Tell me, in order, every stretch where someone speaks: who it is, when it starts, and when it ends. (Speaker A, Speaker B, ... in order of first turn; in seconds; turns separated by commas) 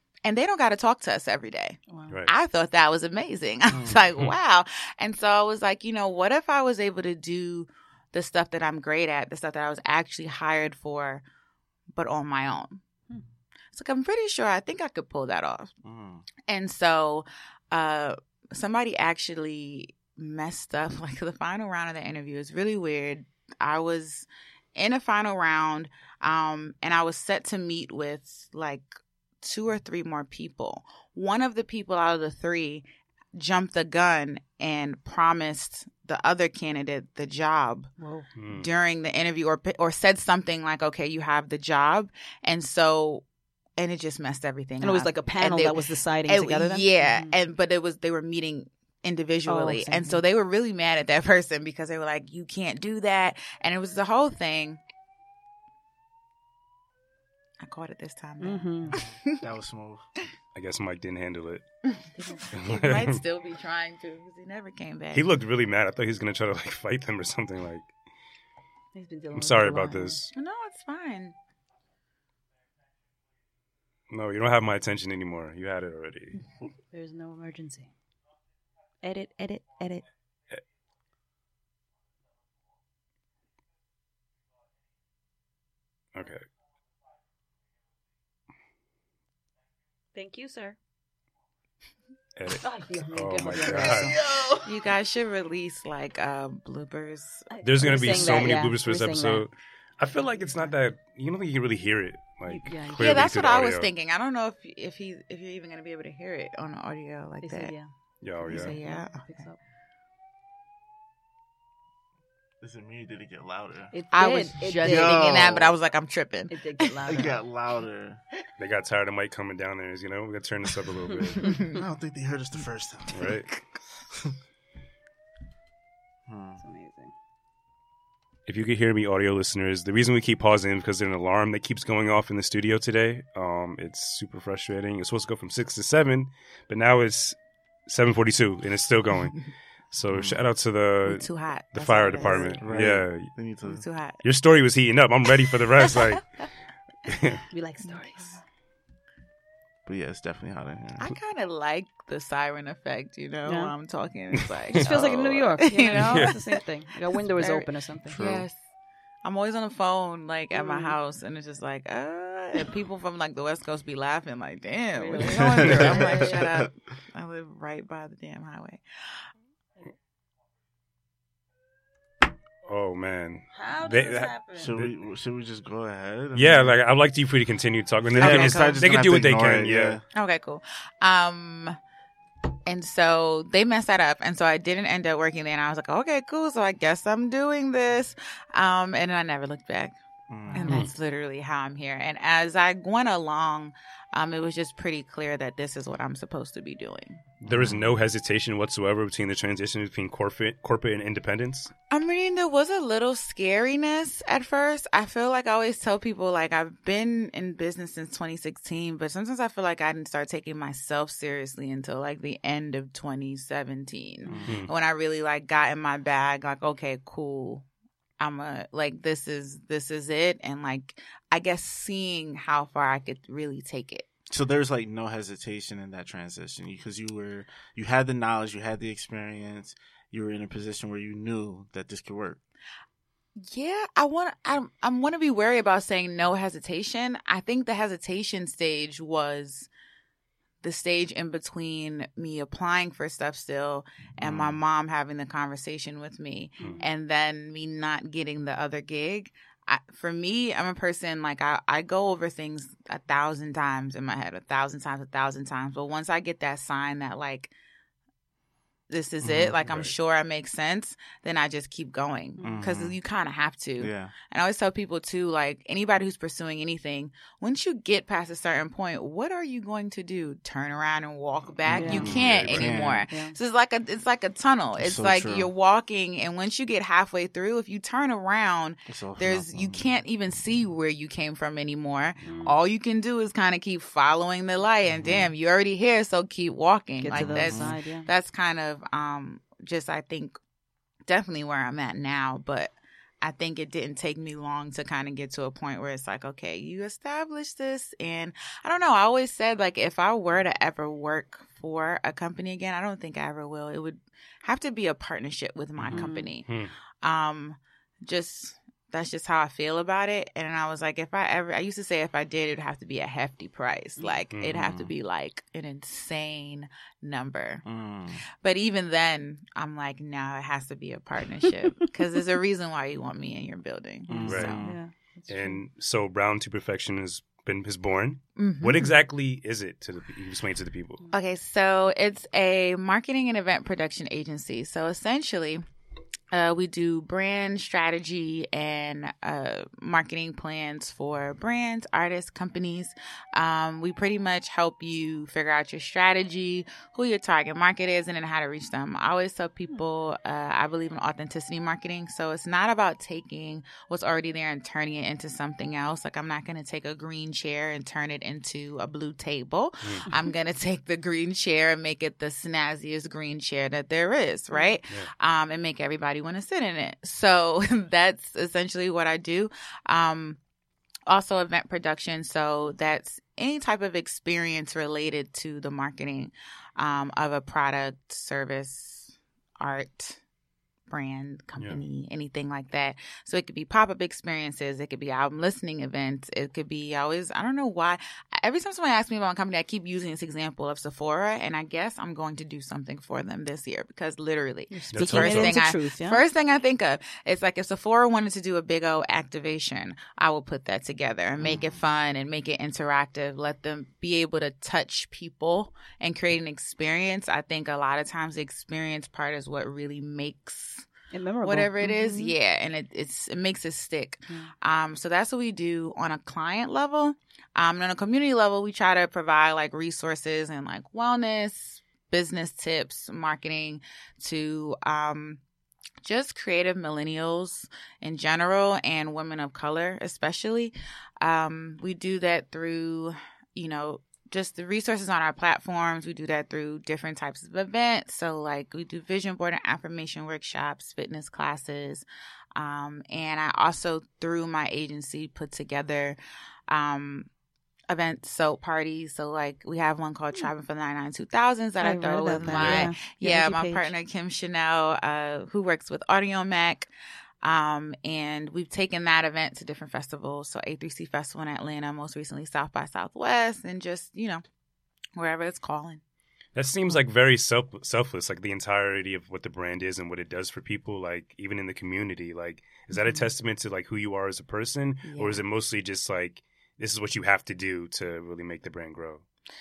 Speaker A: 0.2-11.2, Speaker B: 1.9-2.2, Speaker C: 3.7-4.0, Speaker A: 11.9-12.8, Speaker A: 13.7-15.7, Speaker C: 15.8-16.2, Speaker A: 16.5-37.9, Speaker B: 38.0-38.3, Speaker D: 38.4-38.7, Speaker A: 38.5-43.2, Speaker A: 43.8-54.8, Speaker B: 44.8-47.3, Speaker B: 49.5-50.2, Speaker A: 57.6-59.4, Speaker B: 58.4-59.0, Speaker C: 58.9-60.0, Speaker D: 60.5-61.6, Speaker A: 62.2-65.3, Speaker D: 62.5-63.2, Speaker D: 65.1-67.9, Speaker B: 68.9-70.2, Speaker D: 69.3-70.3, Speaker A: 70.3-71.3, Speaker D: 74.1-76.4, Speaker B: 76.9-77.9, Speaker B: 79.0-80.0, Speaker D: 86.2-86.4, Speaker B: 90.1-90.8, Speaker D: 92.4-94.2, Speaker B: 92.6-94.7, Speaker A: 94.6-98.0, Speaker B: 97.5-99.4, Speaker D: 97.6-103.9, Speaker B: 102.5-103.3, Speaker A: 102.9-107.7, Speaker B: 107.4-107.9, Speaker D: 108.2-108.7, Speaker B: 108.4-109.6, Speaker A: 108.5-109.2, Speaker C: 112.6-113.9, Speaker B: 113.9-115.5, Speaker A: 114.1-117.3, Speaker C: 114.8-115.7, Speaker B: 116.5-117.4, Speaker C: 117.1-118.2, Speaker D: 118.6-121.6, Speaker A: 121.4-121.8, Speaker C: 121.7-123.4, Speaker D: 123.1-123.5, Speaker C: 126.3-126.6, Speaker B: 126.6-127.1, Speaker D: 128.5-143.3, Speaker C: 140.1-140.4, Speaker A: 141.1-142.6, Speaker C: 142.6-143.8, Speaker A: 143.7-144.2, Speaker D: 144.2-146.3, Speaker D: 147.1-147.4, Speaker B: 147.5-148.4, Speaker C: 149.9-151.0, Speaker A: 151.0-156.6, Speaker B: 153.5-153.8, Speaker D: 154.7-156.3, Speaker B: 154.8-158.2, Speaker A: 157.1-158.6, Speaker C: 158.1-158.5, Speaker A: 159.2-169.3, Speaker B: 160.5-161.0, Speaker B: 165.0-166.4, Speaker C: 165.2-166.7, Speaker D: 172.7-174.9, Speaker B: 173.5-174.7, Speaker C: 174.6-176.8, Speaker D: 176.3-180.0, Speaker C: 178.1-180.0, Speaker A: 178.2-178.8, Speaker A: 180.1-181.8, Speaker A: 182.7-190.0, Speaker C: 190.3-190.8, Speaker A: 190.5-197.2, Speaker D: 197.4-201.7, Speaker C: 197.5-197.9, Speaker A: 201.9-217.7, Speaker C: 214.3-214.6, Speaker A: 218.2-224.1, Speaker C: 224.3-232.4, Speaker A: 233.4-239.7, Speaker A: 240.6-257.5, Speaker C: 244.2-244.6, Speaker A: 258.9-290.4, Speaker C: 259.2-259.6, Speaker D: 259.6-259.9, Speaker B: 262.4-262.6, Speaker C: 262.4-263.0, Speaker C: 263.8-264.1, Speaker C: 271.7-273.1, Speaker B: 271.7-272.1, Speaker D: 271.8-272.8, Speaker B: 273.1-273.4, Speaker C: 274.8-275.5, Speaker C: 278.9-279.9, Speaker C: 284.9-285.3, Speaker B: 287.0-288.1, Speaker C: 287.1-287.8, Speaker A: 291.1-306.5, Speaker C: 305.8-306.1, Speaker B: 305.9-306.3, Speaker A: 307.0-317.6, Speaker B: 314.0-314.2, Speaker D: 314.3-314.6, Speaker C: 314.5-314.9, Speaker C: 317.6-318.2, Speaker A: 318.4-324.7, Speaker B: 324.1-325.6, Speaker C: 324.1-324.7, Speaker D: 324.3-324.6, Speaker D: 325.3-331.0, Speaker A: 328.4-328.9, Speaker A: 331.1-335.6, Speaker A: 336.3-370.4, Speaker A: 371.1-380.2, Speaker A: 380.9-410.9, Speaker B: 394.7-396.2, Speaker D: 394.9-395.6, Speaker C: 401.4-401.8, Speaker B: 411.1-412.4, Speaker A: 411.4-425.4, Speaker A: 426.0-447.3, Speaker A: 447.9-456.9, Speaker B: 451.8-453.9, Speaker D: 452.6-452.9, Speaker A: 457.4-464.4, Speaker A: 465.2-466.0, Speaker D: 466.6-479.2, Speaker A: 475.0-475.4